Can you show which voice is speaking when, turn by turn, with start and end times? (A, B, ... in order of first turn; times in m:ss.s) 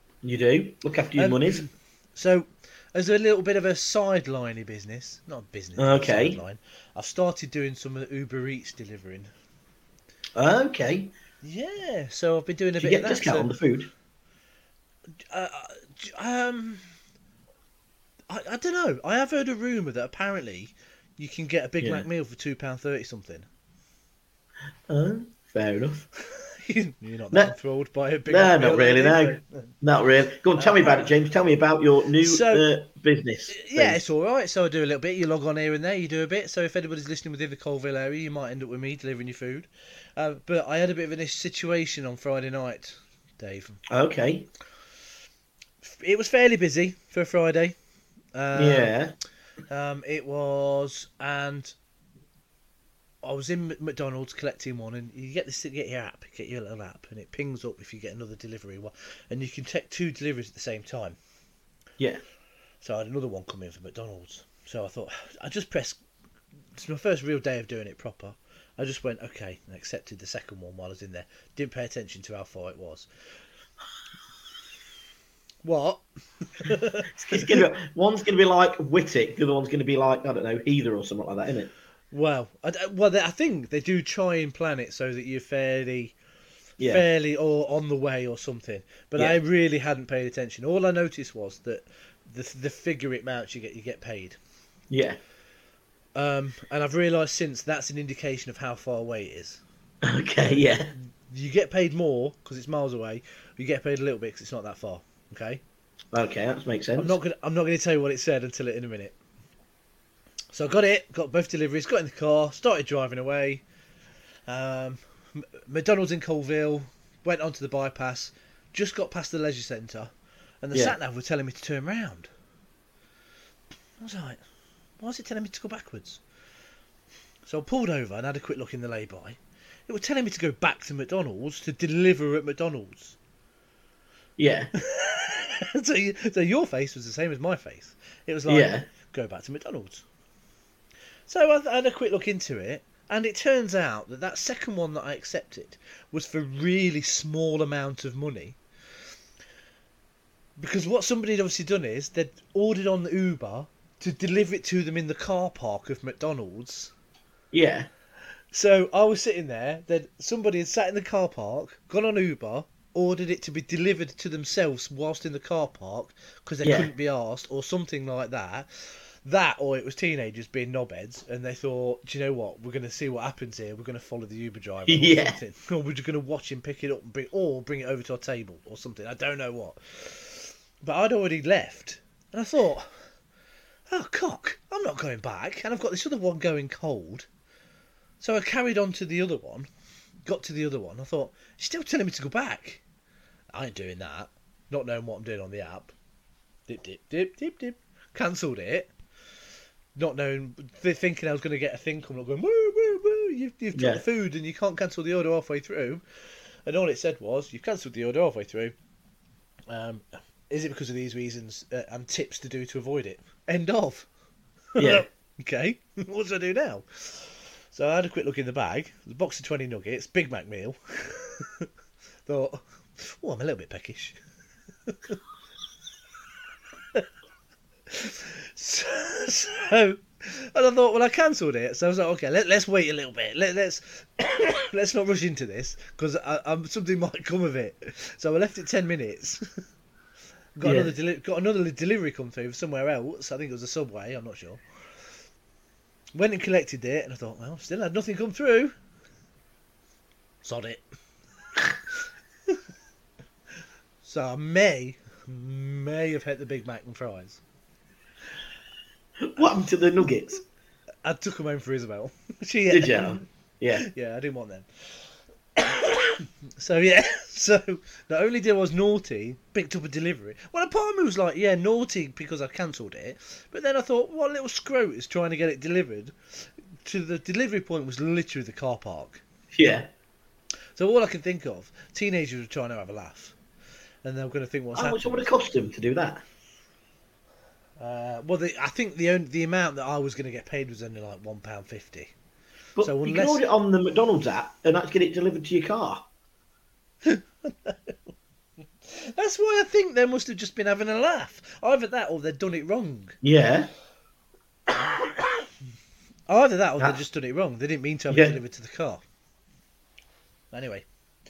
0:00.2-0:01.6 A
0:01.2-0:09.3 B
0:05.8-0:06.4 A
0:10.4-0:11.1 A
0:11.4-0:13.5 B
0:12.8-0:13.9 A
0:15.3-0:16.9 B
0:18.3-0:23.5 B
0:21.8-0:22.1 A
0:24.9-0:26.0 A
0:26.3-0:29.7 B
0:28.3-0:34.0 A
0:30.6-0:31.1 B
0:32.2-0:32.6 B
0:33.5-0:43.8 B
0:43.9-0:44.5 A
0:45.8-0:47.8 B
0:48.3-0:48.9 B
0:48.5-0:49.1 A
0:49.7-0:51.8 B
0:53.2-1:01.2 B
1:02.8-1:06.0 B
1:06.7-1:13.1 B
1:15.6-1:17.6 B
1:17.1-1:21.7 A
1:22.1-1:26.1 B
1:26.8-1:27.0 A
1:26.8-1:34.4 B
1:34.9-1:35.2 A
1:36.1-1:39.6 B
1:40.0-1:40.9 A
1:40.9-1:45.6 B
1:46.1-1:47.2 A
1:47.0-1:49.2 B
1:50.5-1:53.6 B
1:54.5-2:02.3 B
2:04.0-2:04.4 B
2:05.0-2:06.2 B
2:07.4-2:13.2 B
2:14.4-2:14.7 A
2:14.8-2:20.0 B
2:18.5-2:18.9 A
2:21.3-2:28.6 B
2:30.6-2:36.9 B
2:37.5-2:37.9 A
2:38.5-3:03.0 B
2:46.6-2:46.9 A
2:54.9-2:55.4 A
3:03.9-3:07.3 B
3:08.2-3:09.7 B
3:10.2-3:12.8 B
3:13.5-3:15.9 B
3:16.7-3:18.9 B
3:20.0-3:26.0 B
3:23.7-3:24.0 A
3:26.6-3:28.7 B
3:29.7-3:34.1 B
3:34.7-3:41.7 B
3:34.8-3:35.0 A
3:42.3-3:44.2 B
3:44.8-3:45.2 B
3:47.9-3:59.6 B
4:00.6-4:04.6 B
4:00.6-4:00.9 A
4:06.1-4:08.7 B
4:10.4-4:10.8 B
4:11.5-4:11.8 B
4:14.0-4:17.4 B
4:19.2-4:20.4 A
4:21.0-4:23.2 B
4:22.7-4:23.8 A
4:23.8-4:39.2 B
4:39.5-4:39.9 A
4:40.8-4:43.4 B
4:44.0-4:45.3 B
4:44.7-4:46.2 A
4:47.8-4:52.1 B
4:52.8-4:56.1 A
4:52.8-4:53.4 B
4:57.0-4:58.0 B
4:58.9-5:03.2 B
5:03.2-5:03.7 A
5:04.8-5:05.5 B
5:06.3-5:09.0 B
5:08.1-5:08.4 A
5:10.5-5:10.9 B